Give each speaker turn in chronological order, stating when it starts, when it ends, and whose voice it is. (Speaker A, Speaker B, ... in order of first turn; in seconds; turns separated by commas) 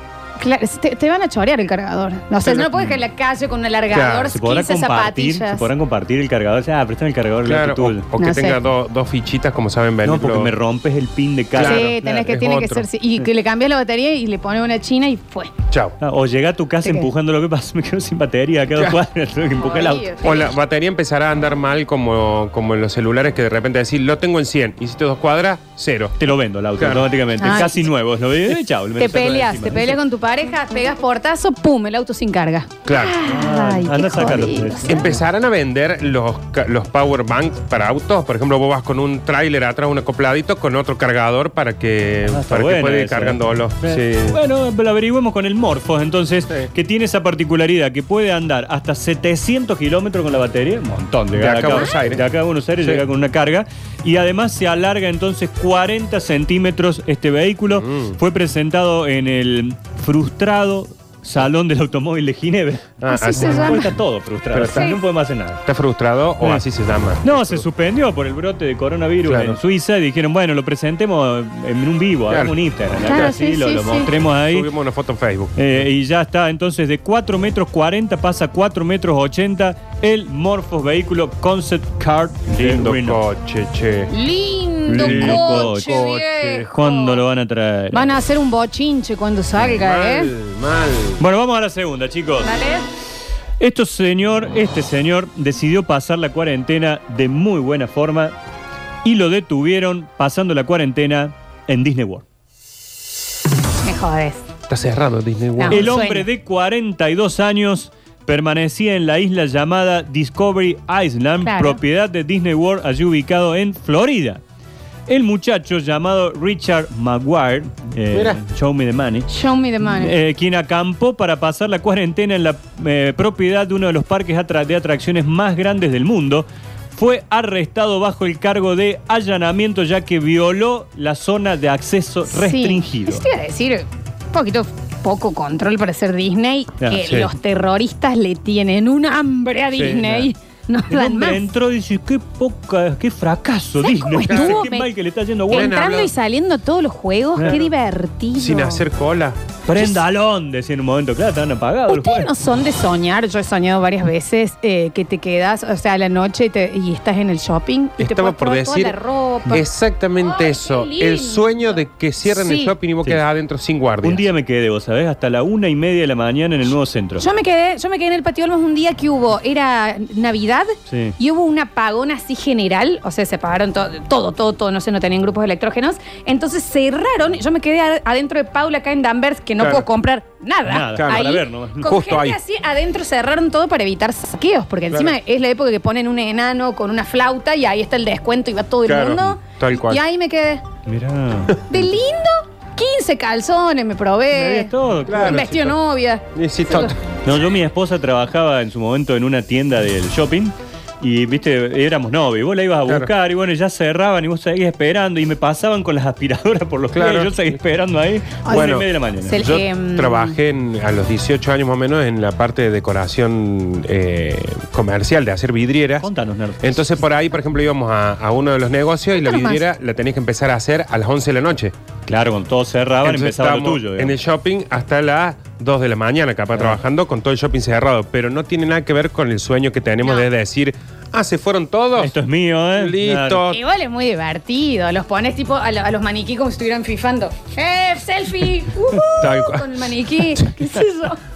Speaker A: 0.4-5.7, Speaker B: 2.4-2.9, Speaker B: 3.9-4.3, Speaker C: 4.3-8.1, Speaker B: 7.4-10.5, Speaker A: 8.2-8.6, Speaker C: 10.0-12.2, Speaker B: 11.6-12.9, Speaker A: 11.6-15.5, Speaker B: 15.7-16.0, Speaker C: 16.0-20.1, Speaker A: 16.8-17.1, Speaker A: 19.5-20.4, Speaker B: 20.2-26.2, Speaker C: 26.2-30.0, Speaker B: 26.8-27.1, Speaker A: 27.4-27.8, Speaker A: 29.0-35.1, Speaker B: 32.9-33.2, Speaker C: 33.2-35.1, Speaker B: 34.9-44.4, Speaker C: 42.3-65.6, Speaker B: 51.3-52.2, Speaker A: 51.7-52.0, Speaker B: 57.7-58.2, Speaker B: 63.0-63.8, Speaker A: 63.1-63.9, Speaker B: 64.5-65.0, Speaker A: 64.7-65.0, Speaker B: 65.7-67.6, Speaker C: 67.2-74.7, Speaker B: 69.3-69.6, Speaker A: 73.0-74.1, Speaker B: 74.4-75.7, Speaker C: 75.6-83.2, Speaker B: 82.5-84.1, Speaker A: 84.1-87.2, Speaker C: 84.9-86.1, Speaker B: 84.9-86.7, Speaker C: 86.7-88.1, Speaker A: 87.9-90.3, Speaker B: 89.6-91.2, Speaker C: 91.2-92.5, Speaker A: 92.4-92.9, Speaker C: 93.6-98.3, Speaker C: 99.0-102.2, Speaker A: 103.8-104.5, Speaker B: 104.7-105.9, Speaker A: 105.6-106.3, Speaker C: 105.7-114.4, Speaker A: 111.4-111.8, Speaker C: 115.1-119.4, Speaker B: 118.1-118.4, Speaker A: 119.3-120.2, Speaker C: 120.0-133.2, Speaker A: 132.3-141.4, Speaker B: 137.0-137.3, Speaker B: 139.7-140.2, Speaker C: 139.9-140.3, Speaker C: 140.9-145.8, Speaker A: 143.8-144.9, Speaker B: 144.3-144.6, Speaker A: 145.5-148.8, Speaker B: 145.5-146.1, Speaker B: 148.3-149.4, Speaker C: 149.7-152.3, Speaker A: 149.8-150.0, Speaker A: 151.9-159.7, Speaker B: 158.0-159.0, Speaker B: 159.5-164.3, Speaker A: 160.2-162.8, Speaker C: 164.0-167.3, Speaker A: 167.2-190.6, Speaker C: 170.9-171.2, Speaker B: 179.6-179.9, Speaker C: 180.7-182.0, Speaker B: 180.9-181.3, Speaker B: 181.8-182.4, Speaker B: 188.8-190.0, Speaker C: 190.9-191.9, Speaker A: 191.7-196.9, Speaker C: 194.3-195.5, Speaker B: 195.1-195.8, Speaker B: 196.3-197.0, Speaker C: 197.2-209.5, Speaker B: 206.9-207.4, Speaker B: 208.5-216.1, Speaker A: 209.3-210.4, Speaker C: 216.0-217.0, Speaker B: 216.6-221.7, Speaker A: 219.2-219.6, Speaker C: 222.1-224.2, Speaker B: 223.0-232.1, Speaker C: 232.0-233.4, Speaker B: 232.8-233.6, Speaker A: 233.5-241.2, Speaker B: 239.2-239.8